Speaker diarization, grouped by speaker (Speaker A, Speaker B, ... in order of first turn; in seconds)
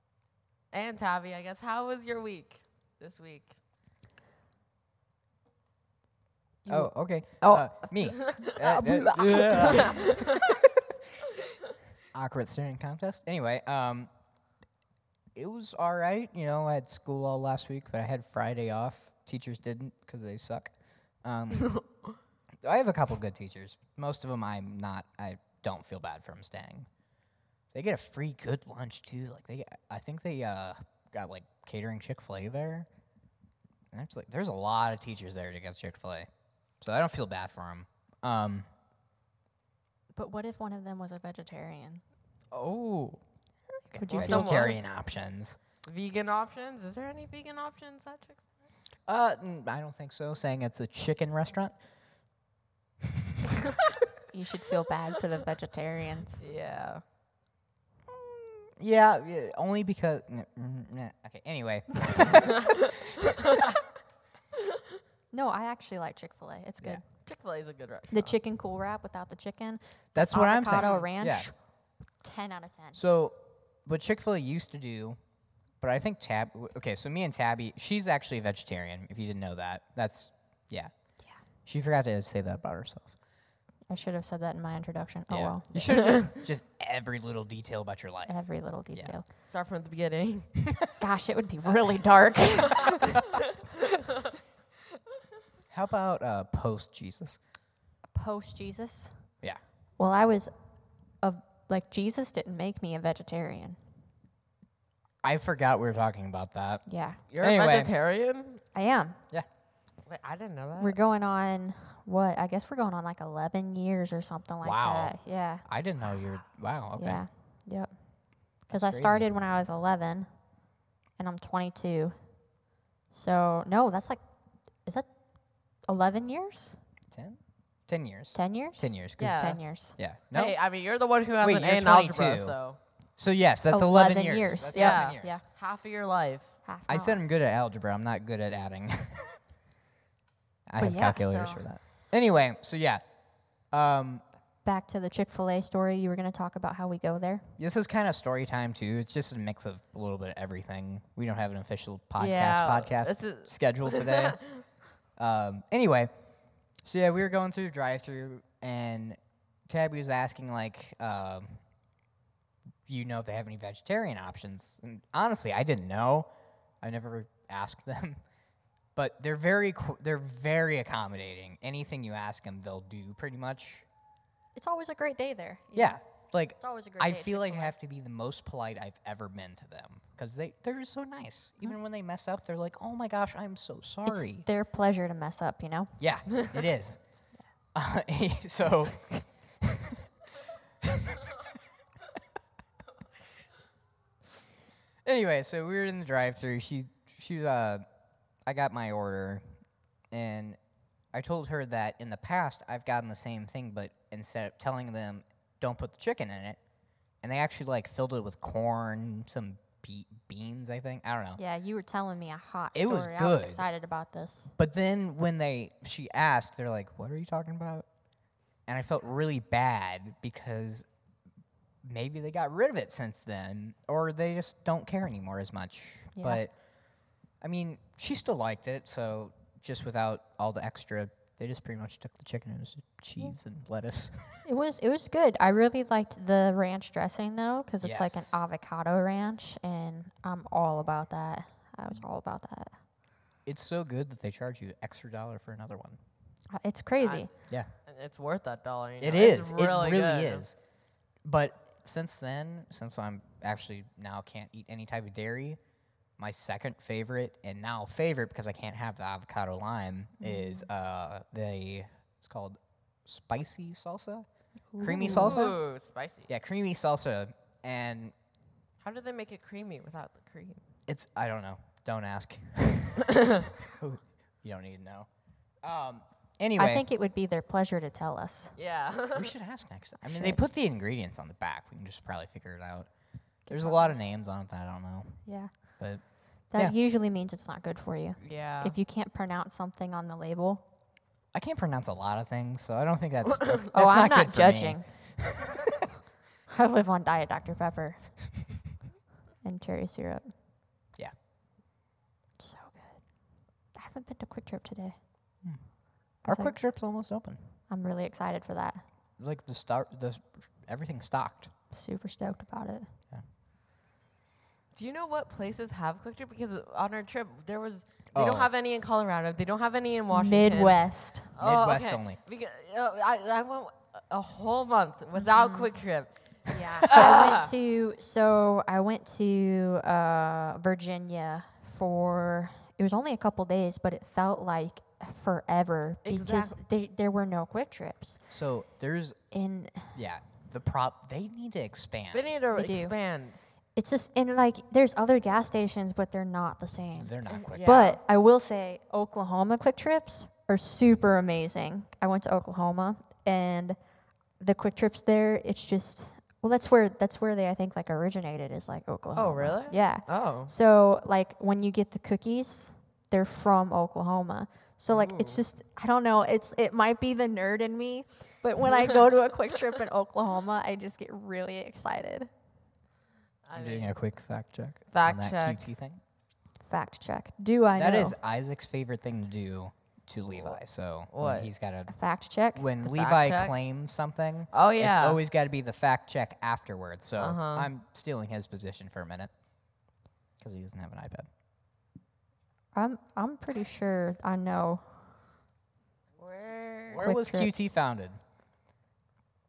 Speaker A: 0.7-3.5, 8.1-8.6, 9.7-10.4, 42.5-43.2, 43.9-44.8, 45.8-48.5, 56.4-57.0, 67.2-68.3, 70.7-71.1, 85.7-86.3, 89.4-90.5, 107.3-108.6, 110.0-111.0, 129.2-129.6, 130.3-132.8, 134.7-136.5, 152.2-154.6, 247.0-250.4, 265.1-266.3, 268.8-270.6, 278.6-279.3, 288.2-288.7, 314.7-327.5, 336.0-336.6, 342.1-343.4, 347.3-348.0, 359.1-360.5, 364.9-365.4, 373.4-373.9, 374.9-375.6, 381.1-381.5, 382.8-383.5, 384.5-385.2, 387.2-387.7, 396.2-397.0
Speaker B: 6.6-10.2, 40.1-42.0, 44.0-44.7, 54.3-56.5, 65.3-67.0, 68.1-71.6, 72.2-73.0, 83.9-86.1, 88.3-89.2, 91.0-93.0, 98.1-99.3, 100.0-100.5, 101.2-103.8, 106.8-107.2, 108.7-109.2, 110.8-115.7, 117.0-120.5, 121.2-122.5, 123.1-124.2, 124.8-126.8, 128.3-130.0, 133.7-135.4, 136.6-137.2, 140.8-141.7, 144.6-147.5, 174.6-176.0, 176.6-177.7, 184.1-185.9, 211.4-214.5, 226.1-226.4, 234.4-242.7, 246.5-247.3, 260.2-260.7, 264.7-265.4, 276.6-278.6, 280.0-280.4, 283.5-284.0, 285.2-285.8, 286.5-290.6, 293.7-294.9, 296.5-298.6, 299.4-300.3, 302.4-305.0, 306.2-306.6, 307.7-308.8, 311.7-312.9, 320.1-321.3, 325.1-325.7, 326.5-338.2, 339.3-339.9, 342.5-342.9, 343.7-353.8, 354.3-372.3, 376.6-378.1, 381.9-382.6, 392.7-395.0, 397.0-397.7
Speaker C: 6.7-10.7, 12.1-14.1, 15.3-20.7, 21.2-21.8, 22.6-26.9, 27.7-32.9, 33.9-36.3, 36.8-38.7, 44.1-45.6, 49.1-51.7, 58.1-62.8, 70.1-71.5, 72.9-75.2, 75.8-80.9, 81.6-83.1, 85.3-89.1, 95.7-97.4, 105.2-107.9, 114.6-117.2, 118.7-119.3, 127.1-130.6, 131.4-132.6, 133.2-135.4, 136.9-139.3, 140.7-143.0, 143.6-144.2, 147.6-154.4, 155.2-156.1, 156.8-161.6, 162.9-166.3, 166.8-168.2, 168.9-173.8, 175.7-184.5, 186.0-187.0, 187.7-190.0, 190.8-191.3, 195.0-197.8, 198.4-199.4, 200.1-200.6, 201.1-206.6, 207.2-211.4, 212.7-213.6, 214.6-217.9, 218.7-220.8, 221.8-226.5, 227.4-234.4, 237.8-238.4, 243.4-246.0, 249.0-250.6, 251.2-255.6, 256.2-264.2, 264.8-265.6, 266.3-268.1, 270.9-275.1, 275.6-276.8, 279.1-282.9, 283.5-286.8, 291.3-295.6, 305.4-305.7, 306.2-307.4, 309.2-311.5, 318.1-318.5, 321.4-322.2, 338.3-339.2, 339.9-342.4, 347.0-347.9, 373.5-376.0, 377.8-389.3, 390.4-391.3, 396.9-398.2